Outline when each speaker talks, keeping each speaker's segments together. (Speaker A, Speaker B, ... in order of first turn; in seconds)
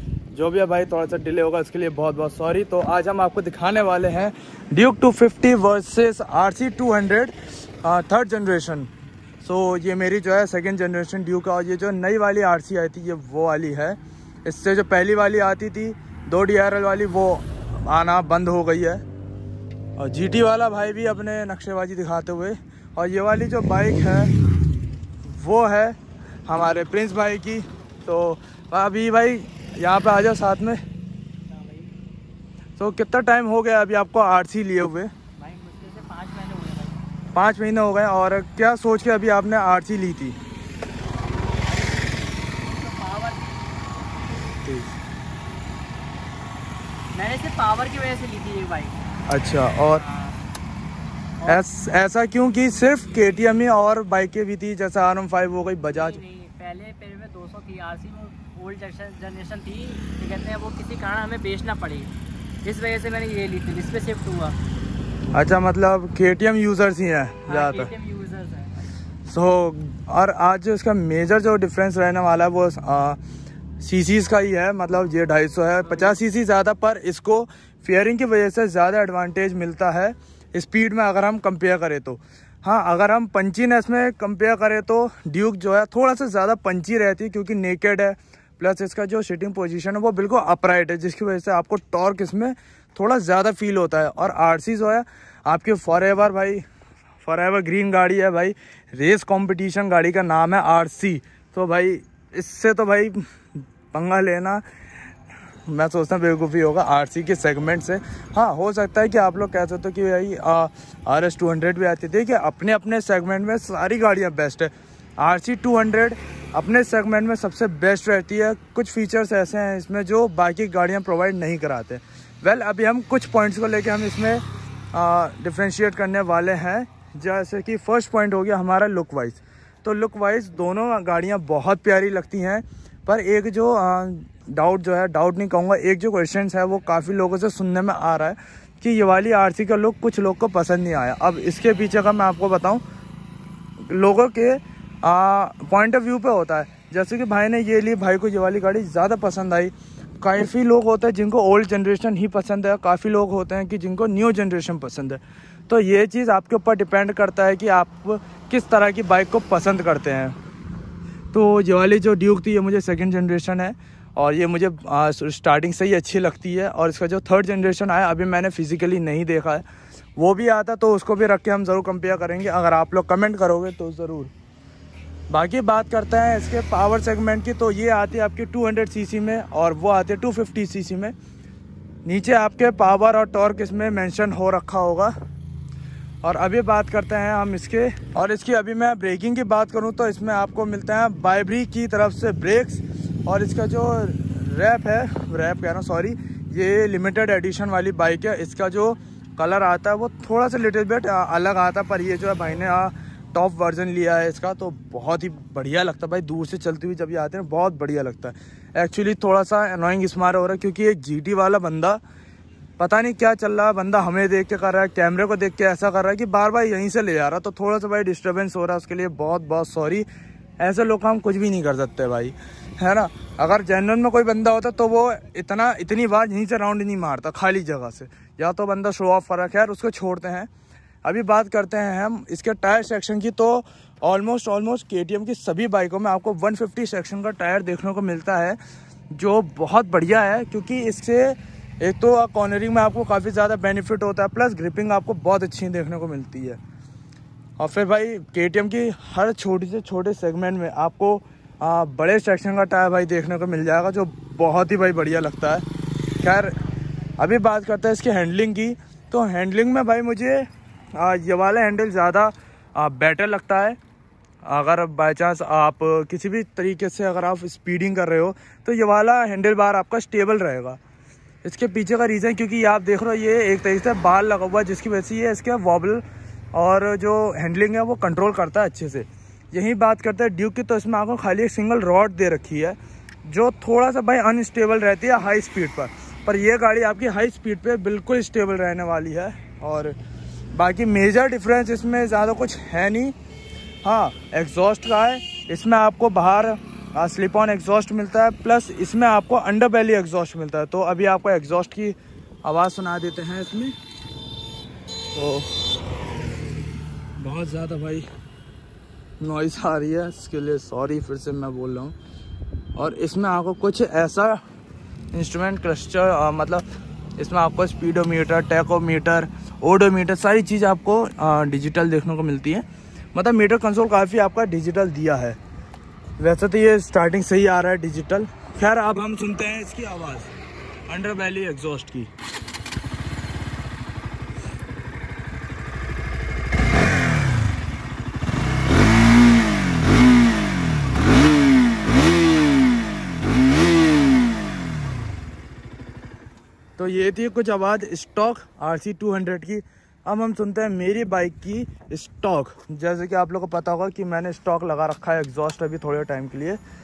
Speaker A: 0.3-8.9, 9.4-19.0, 20.0-24.3, 25.2-26.0, 26.5-30.8, 32.8-35.1, 37.3-40.4, 44.6-45.0, 49.3-50.0, 51.5-56.2, 65.3-67.9, 69.3-73.2, 73.8-96.7, 97.2-103.2, 103.9-104.6, 105.7-142.8, 143.9-160.4, 161.3-169.7, 170.2-174.3, 175.3-181.1, 182.1-185.1, 186.2-212.0, 212.8-220.1, 220.6-230.5, 231.0-238.6, 239.1-246.6, 247.6-255.7, 256.2-256.6, 257.2-263.8, 264.4-270.8, 271.4-290.0, 290.5-293.1, 293.8-303.7, 305.1-305.5, 307.2-308.1, 309.2-311.9, 312.8-314.4, 315.1-316.6, 317.2-325.4, 326.2-330.3, 330.9-332.1, 346.8-356.6
Speaker B: 31.5-31.9, 35.4-37.0, 41.7-42.1, 42.6-43.6, 47.1-49.0, 50.0-50.4, 55.9-62.1, 62.6-64.6, 67.5-68.8